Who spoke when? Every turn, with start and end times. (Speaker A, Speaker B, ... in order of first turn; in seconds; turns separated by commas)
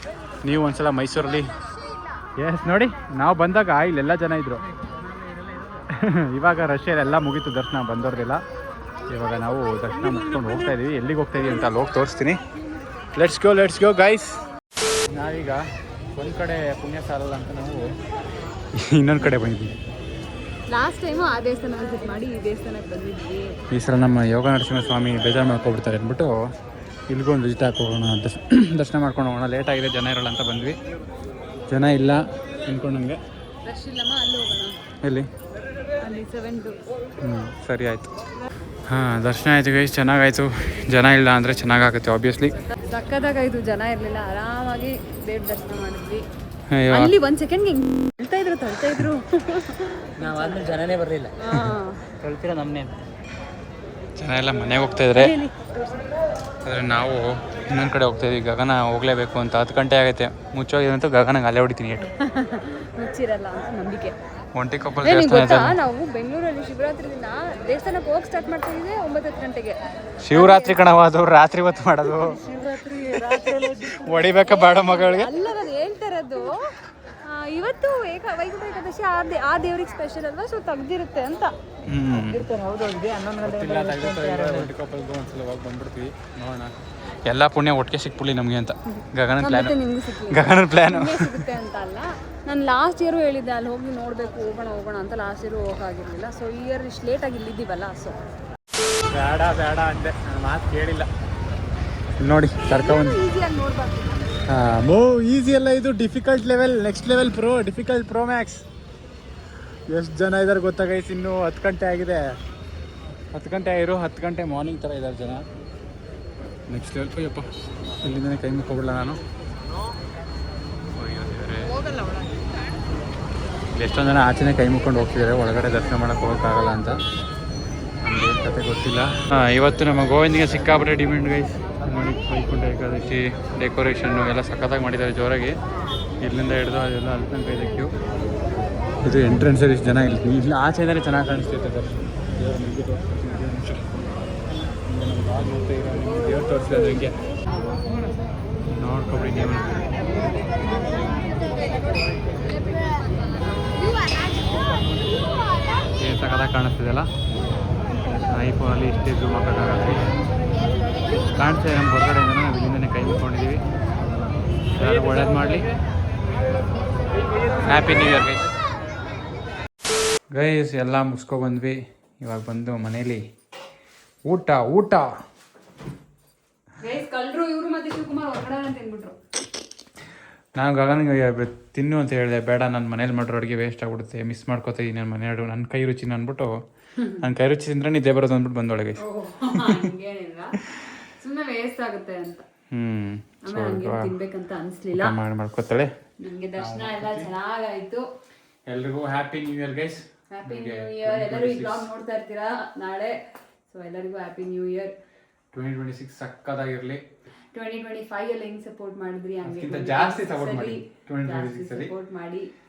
Speaker A: 0.4-1.5, Speaker A: 2.4-4.6, Speaker B: 4.9-5.8, Speaker A: 5.9-8.4, Speaker A: 9.1-12.4, Speaker B: 9.9-10.7, Speaker A: 13.1-14.4, Speaker A: 15.1-15.6, Speaker A: 16.1-17.9, Speaker A: 18.7-19.8, Speaker C: 20.7-23.6, Speaker A: 23.7-26.3, Speaker A: 27.1-30.8, Speaker A: 31.7-33.2, Speaker C: 33.6-34.8, Speaker A: 35.0-35.3, Speaker C: 36.0-36.8, Speaker A: 37.2-38.1, Speaker A: 38.9-42.5, Speaker C: 42.6-46.2, Speaker A: 46.7-47.1, Speaker C: 46.9-50.6, Speaker B: 50.2-51.4, Speaker C: 51.4-52.0, Speaker B: 52.2-53.0, Speaker A: 54.2-55.4, Speaker C: 55.0-56.1, Speaker A: 56.6-62.1, Speaker C: 62.2-64.1, Speaker A: 64.5-65.8, Speaker C: 65.0-69.8, Speaker A: 70.2-72.4, Speaker C: 70.3-70.8, Speaker B: 72.2-74.3, Speaker A: 74.0-75.3, Speaker C: 74.3-76.7, Speaker C: 77.2-81.5, Speaker A: 81.9-82.5, Speaker B: 82.1-84.7, Speaker A: 83.4-89.7, Speaker C: 88.9-98.2, Speaker A: 90.3-91.5, Speaker A: 99.1-101.1, Speaker A: 102.2-103.2, Speaker C: 102.7-104.4, Speaker A: 104.5-108.6, Speaker A: 109.9-112.4, Speaker A: 113.3-115.4, Speaker A: 116.7-117.5, Speaker A: 118.0-119.2, Speaker A: 120.9-121.7, Speaker A: 123.7-127.0, Speaker A: 128.0-135.6, Speaker A: 136.2-137.9, Speaker A: 139.0-143.8, Speaker A: 144.9-147.2, Speaker A: 148.8-149.8, Speaker C: 150.9-151.7, Speaker C: 152.6-154.5, Speaker C: 155.3-155.8, Speaker A: 156.0-157.1, Speaker A: 158.3-160.2, Speaker A: 161.4-163.6, Speaker A: 164.7-165.7, Speaker A: 167.6-168.5, Speaker A: 170.3-173.2, Speaker A: 174.2-175.1, Speaker C: 176.8-179.2, Speaker A: 180.5-186.5, Speaker C: 187.0-187.2, Speaker A: 187.2-189.0, Speaker C: 189.0-192.4, Speaker A: 189.5-189.8, Speaker A: 192.7-194.1, Speaker C: 193.4-195.2, Speaker A: 194.9-195.9, Speaker C: 196.2-198.0, Speaker A: 196.6-197.3, Speaker A: 198.7-201.9, Speaker C: 200.3-203.1, Speaker C: 203.7-204.9, Speaker A: 205.5-207.0, Speaker C: 207.5-212.5, Speaker A: 209.4-211.9